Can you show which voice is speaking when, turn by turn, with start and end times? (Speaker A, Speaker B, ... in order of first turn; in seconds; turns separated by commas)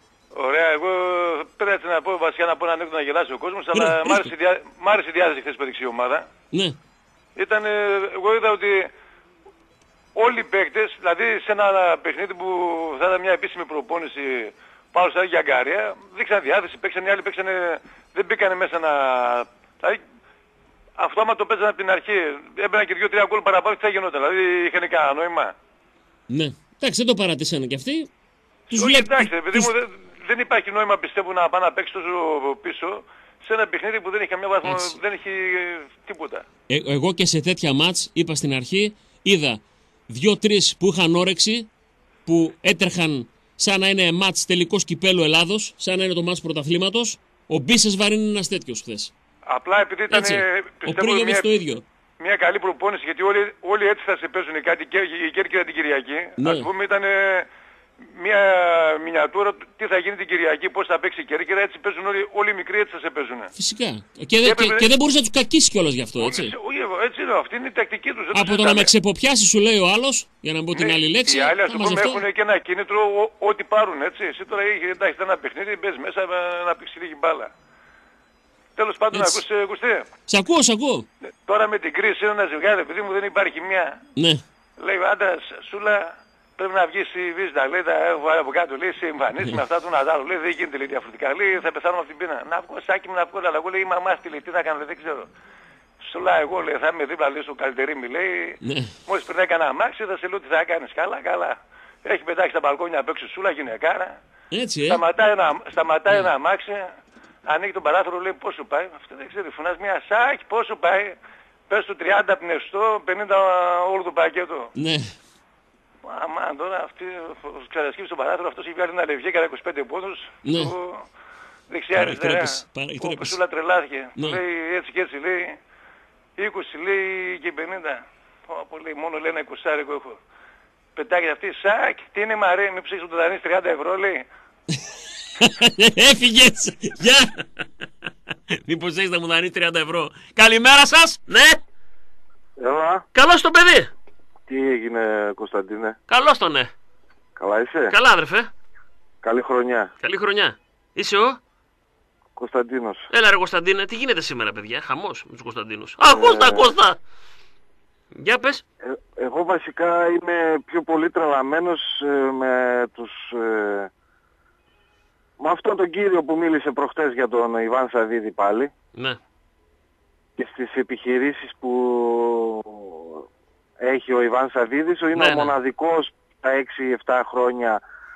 Speaker A: 0.3-6.3, Speaker B: 3.7-4.3, Speaker B: 6.5-6.8, Speaker A: 7.3-8.9, Speaker A: 10.1-20.0, Speaker A: 21.0-25.5, Speaker B: 26.3-28.1, Speaker A: 28.7-36.4, Speaker B: 28.7-29.7, Speaker B: 34.6-35.0, Speaker B: 36.7-41.7, Speaker B: 42.2-49.1, Speaker A: 49.5-51.5, Speaker B: 50.1-51.8, Speaker A: 52.2-57.5, Speaker B: 56.4-56.7, Speaker A: 58.1-63.5, Speaker B: 63.5-66.5, Speaker A: 64.4-64.9, Speaker A: 66.2-68.9, Speaker B: 68.3-72.2, Speaker A: 70.7-77.5, Speaker A: 78.8-80.1, Speaker B: 79.1-79.4, Speaker B: 80.3-81.1, Speaker A: 81.5-84.0, Speaker B: 84.2-84.4, Speaker A: 84.8-95.3, Speaker A: 96.0-104.2, Speaker B: 98.6-98.9, Speaker B: 104.5-105.0, Speaker A: 104.9-106.9, Speaker A: 107.5-111.2, Speaker A: 111.7-114.7, Speaker B: 114.8-115.1, Speaker A: 116.0-121.0, Speaker B: 120.4-120.7, Speaker A: 121.7-125.6, Speaker B: 121.9-123.4, Speaker A: 126.4-130.2, Speaker A: 130.9-134.3, Speaker B: 135.4-137.6, Speaker B: 138.6-141.6, Speaker C: 142.6-143.0, Speaker B: 143.1-143.9, Speaker C: 144.5-145.9, Speaker B: 146.1-146.7, Speaker C: 147.4-147.9, Speaker B: 147.9-148.5, Speaker C: 149.2-149.9, Speaker B: 150.0-151.4, Speaker C: 152.4-153.0, Speaker B: 153.1-157.0, Speaker C: 156.0-156.7, Speaker B: 158.1-158.6, Speaker C: 159.2-163.9, Speaker C: 165.4-168.7, Speaker C: 170.4-173.2, Speaker C: 173.8-177.8, Speaker B: 175.1-175.5